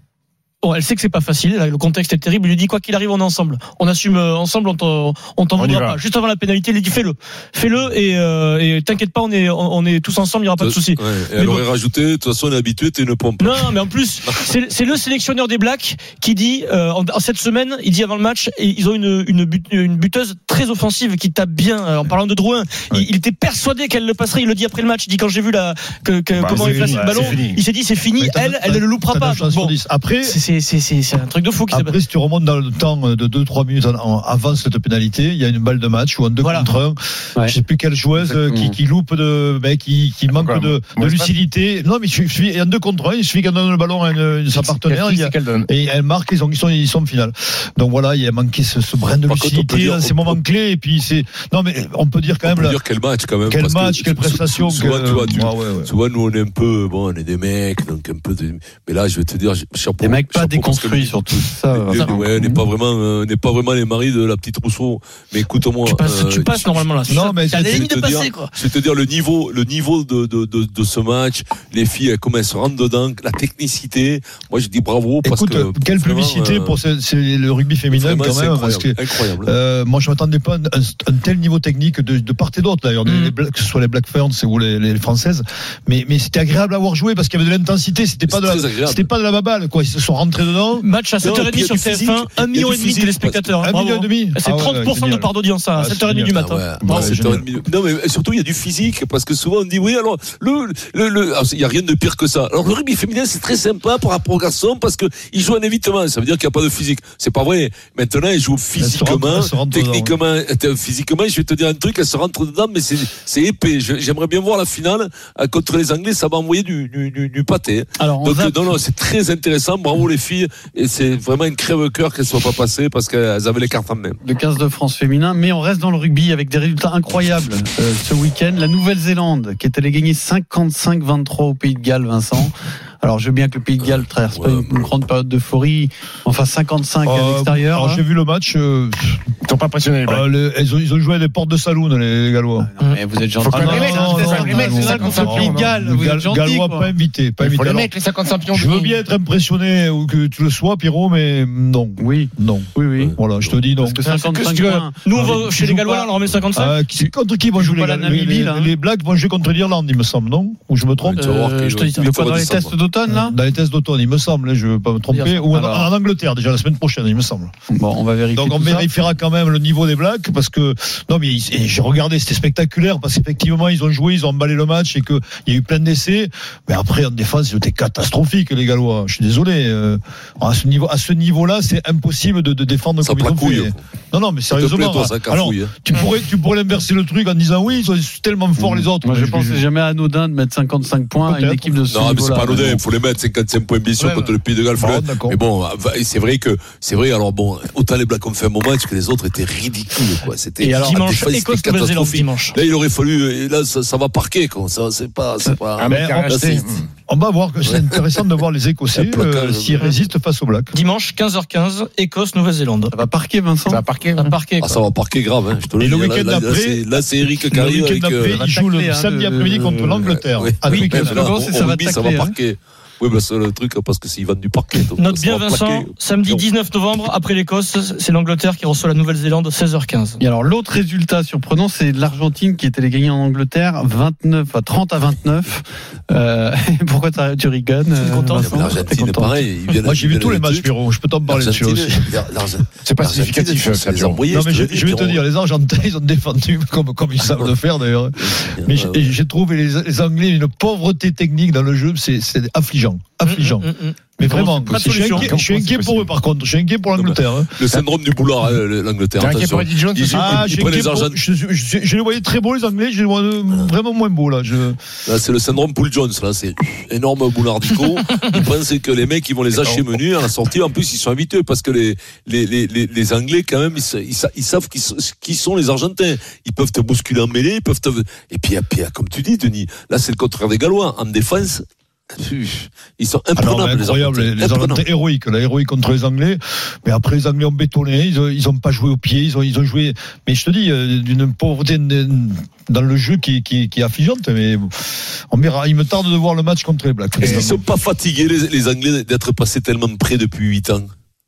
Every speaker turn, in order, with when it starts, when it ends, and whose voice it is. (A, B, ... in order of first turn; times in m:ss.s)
0:00.6-0:11.6 A
0:05.6-0:06.0 B
0:10.6-0:14.4 C
0:13.4-0:32.0 A
0:26.3-0:27.6 B
0:26.5-0:27.4 D
0:28.2-0:30.4 D
0:31.7-0:52.8 D
0:36.4-0:36.7 A
0:38.2-0:38.8 E
0:40.3-0:41.3 B
0:44.5-0:45.7 B
0:49.3-0:50.4 C
0:52.4-1:16.8 C
0:53.5-0:55.9 D
1:00.0-1:02.6 E
1:01.9-1:02.2 A
1:05.8-1:08.5 A
1:07.1-1:07.9 D
1:15.2-1:30.8 D
1:17.9-1:19.5 C
1:23.0-1:23.3 A
1:28.3-1:29.1 C
1:30.8-1:37.4 A
1:31.2-1:33.5 C
1:33.6-1:37.4 D
1:36.3-2:04.2 C
1:48.8-1:50.1 D
1:58.0-1:58.7 E
2:04.2-2:18.0 E
2:13.8-2:14.9 C
2:17.0-2:19.2 D
2:19.4-2:20.2 B
2:20.0-2:22.7 D
2:22.6-2:26.9 E
2:23.4-2:25.7 B
2:23.5-2:27.9 D
2:27.4-2:29.0 B
2:28.5-2:34.0 D
2:32.0-2:33.1 E
2:33.0-2:33.6 C
2:33.8-2:35.4 E
2:34.0-2:37.1 A
2:35.1-2:41.3 D
2:37.6-2:38.7 E
2:41.0-2:42.7 C
2:41.2-2:42.1 A
2:42.0-2:43.4 E
2:43.1-2:47.5 D
2:45.1-2:45.8 A
2:47.7-2:48.9 E
2:48.3-3:09.6 D
3:03.0-3:03.8 C
3:04.5-3:05.7 C
3:08.6-3:12.8 E
3:11.2-3:11.8 D
3:11.9-3:26.8 C
3:14.0-3:15.4 D
3:20.6-3:22.6 A
3:25.8-3:26.9 B
3:25.9-3:26.4 D
3:27.1-3:30.7 D
3:27.7-3:28.2 C
3:28.9-3:30.0 C
3:30.7-3:32.9 A
3:32.9-3:33.8 E
3:33.7-3:34.3 B
3:34.2-3:34.8 A
3:34.6-3:38.3 C
3:35.8-3:41.3 D
3:38.3-3:40.1 E
3:40.0-3:46.4 C
3:40.6-3:40.9 A
3:40.8-3:42.4 E
3:45.0-3:50.2 A
3:50.2-3:59.4 E
3:57.9-3:58.7 A
3:58.2-4:00.7 C
3:59.8-4:02.2 D
4:01.3-4:05.2 C
4:02.8-4:04.2 B
4:04.3-4:17.6 D
4:07.2-4:07.5 C
4:08.2-4:09.1 C
4:13.2-4:15.3 A
4:15.1-4:15.8 C
4:15.3-4:16.1 B
4:17.0-4:21.2 C
4:19.2-4:20.5 B
4:20.1-4:24.8 D
4:25.0-4:44.8 C
4:29.6-4:29.9 B
4:43.3-4:54.7 D
4:55.3-4:57.6 D
4:57.2-5:00.9 C
4:57.2-4:57.5 B